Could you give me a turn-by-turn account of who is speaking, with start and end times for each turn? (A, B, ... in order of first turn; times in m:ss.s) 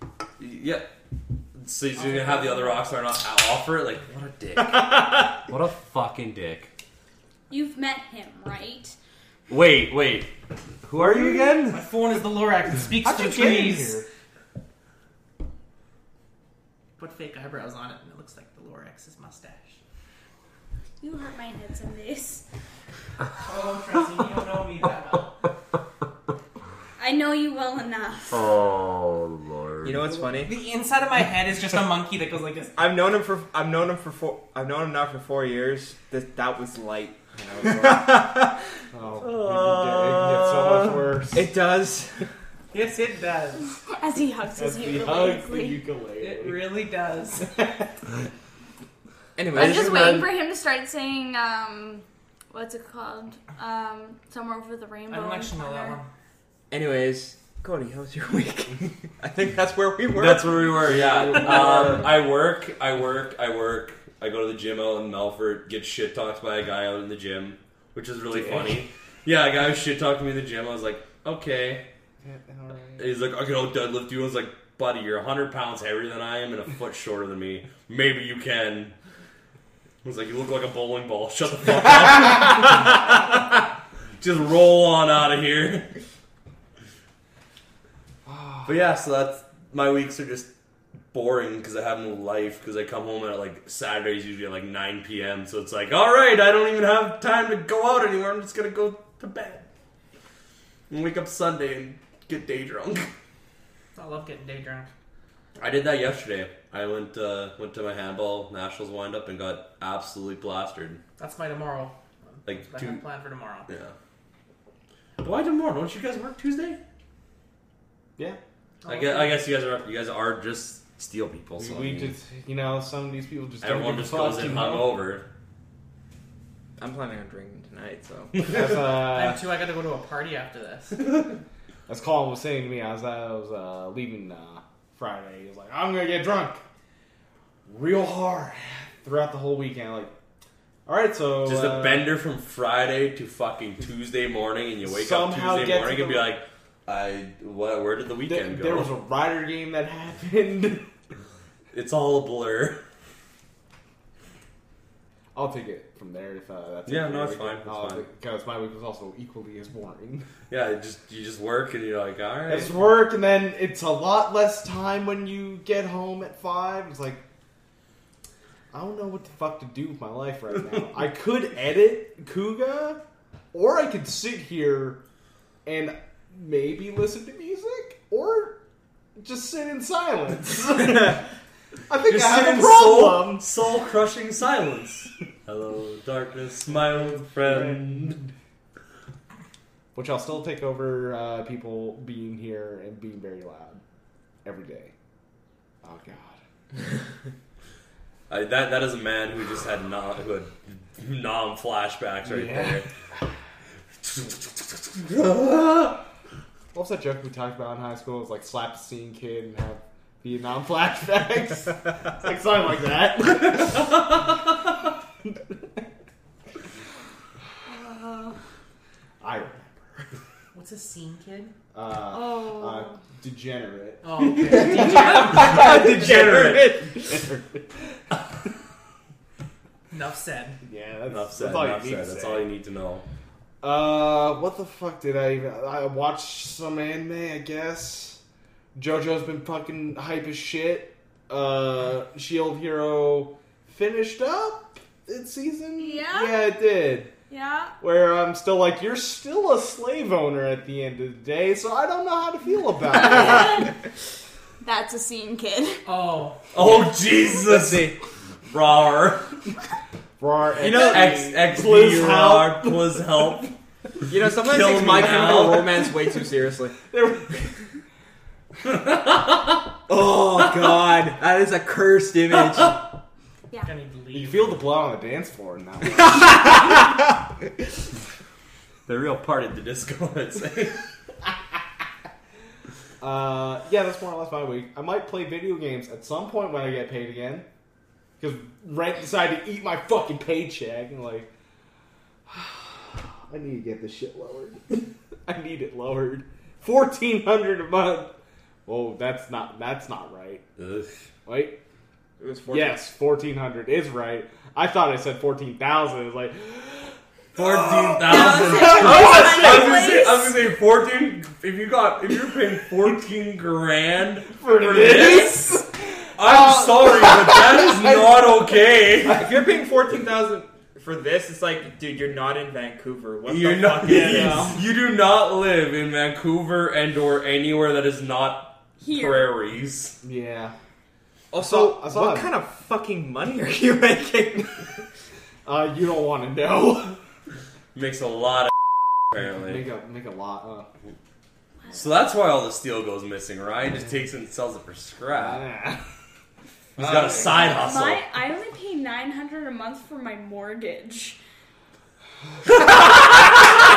0:00.4-0:00.9 A
0:01.5-0:06.7 A
0:02.0-0:02.8 B
0:07.5-0:09.0 C
0:09.5-0:11.8 A
0:11.0-0:11.6 D
0:11.7-0:14.0 B
0:13.0-0:14.0 D
0:17.0-0:19.8 B
0:21.0-0:22.4 C
0:23.4-0:25.4 B
0:27.0-0:28.5 C
0:28.3-0:29.9 A
0:29.8-0:30.5 E
0:30.4-0:32.7 B
0:32.8-0:38.6 E
0:37.5-0:38.2 D
0:38.9-0:41.5 D
0:39.2-0:41.0 A
0:41.3-0:42.2 E
0:42.7-0:43.7 B
0:43.9-0:45.8 C
0:44.6-0:46.8 D
0:46.2-0:47.5 B
0:47.4-0:47.8 D
0:49.4-0:50.3 E
0:49.5-0:56.0 C
0:49.6-0:50.2 D
0:55.1-0:56.1 B
0:56.7-1:02.0 E
1:00.1-1:11.8 A
1:00.8-1:02.2 D
1:08.3-1:08.8 D
1:12.2-1:13.1 D
1:13.0-1:18.9 A
1:20.0-1:25.9 A
1:28.2-1:28.7 D
1:28.6-1:30.5 A
1:31.1-1:39.6 A
1:40.9-1:43.1 A
1:44.0-1:44.9 B
1:45.6-1:51.0 A
1:51.2-1:53.7 B
1:52.4-1:53.0 A
1:53.7-1:53.9 A
1:55.2-1:56.8 A
1:58.8-1:59.4 B
1:58.8-2:02.1 A
2:01.6-2:05.0 D
2:03.6-2:05.2 A
2:06.8-2:08.4 E
2:08.4-2:09.4 D
2:08.8-2:11.1 B
2:11.9-2:16.6 D
2:17.7-2:20.1 D
2:20.8-2:22.1 D
2:21.4-2:28.9 A
2:24.8-2:26.4 D
2:28.2-2:30.9 D
2:31.7-2:32.8 A
2:35.3-2:40.3 D
2:36.8-2:38.0 A
2:40.5-2:42.8 A
2:42.4-2:47.2 D
2:48.7-2:53.0 D
2:53.5-2:55.0 D
2:55.6-2:58.6 D
2:59.2-3:01.3 D
3:01.9-3:03.5 D
3:02.1-3:08.3 A
3:06.7-3:08.0 D
3:09.9-3:13.8 D
3:14.4-3:14.9 D
3:15.8-3:16.4 D
3:18.3-3:22.9 A
3:22.2-3:22.8 D
3:24.0-3:26.0 A
3:26.7-3:34.2 D
3:37.7-3:38.4 C
3:39.2-3:40.1 D
3:40.5-3:41.5 B
3:41.7-3:45.1 D
3:42.1-3:43.0 C
3:44.0-3:45.6 B
3:44.4-3:46.8 A
3:44.5-3:47.2 E
3:47.1-3:47.4 D
3:49.9-3:50.6 B
3:50.6-3:52.5 D
3:51.1-3:53.0 A
3:53.6-3:58.2 D
3:58.7-4:07.1 D
4:05.8-4:06.5 C
4:07.3-4:07.7 C
4:07.8-4:13.7 D
4:12.9-4:13.7 C
4:14.6-4:15.8 C
4:15.8-4:16.4 B
4:16.5-4:18.0 A
4:16.6-4:17.9 E
4:18.5-4:19.3 A
4:20.2-4:23.4 D
4:20.6-4:21.2 E
4:20.7-4:23.5 A
4:24.1-4:26.8 E
4:24.2-4:25.8 A
4:26.9-4:27.6 D
4:28.7-4:29.2 A
4:29.9-4:32.8 E
4:33.6-4:34.6 B
4:34.1-4:36.9 D
4:38.9-4:40.8 A
4:43.0-4:47.4 D
4:48.2-4:51.3 D
4:52.3-4:58.1 D
4:58.6-5:00.4 D
5:00.6-5:00.9 A
5:01.2-5:01.6 D
5:02.2-5:02.9 E
5:02.5-5:10.0 D
5:07.4-5:15.5 A
5:08.0-5:10.5 C
5:09.0-5:09.5 E
5:14.2-5:18.9 D
5:16.2-5:19.3 A
5:19.0-5:24.5 E
5:23.3-5:30.0 A
5:23.8-5:24.6 D
5:28.8-5:29.3 C
5:30.0-5:30.5 D
5:31.3-5:34.8 E
5:31.4-5:32.3 D
5:35.4-5:37.0 D
5:37.7-5:38.5 A
5:39.1-5:39.6 A
5:39.2-5:40.7 D
5:41.7-5:45.4 A
5:45.1-5:45.8 D
5:46.8-5:48.0 A
5:46.8-5:47.5 E
5:47.0-5:47.3 D
5:47.4-5:51.2 C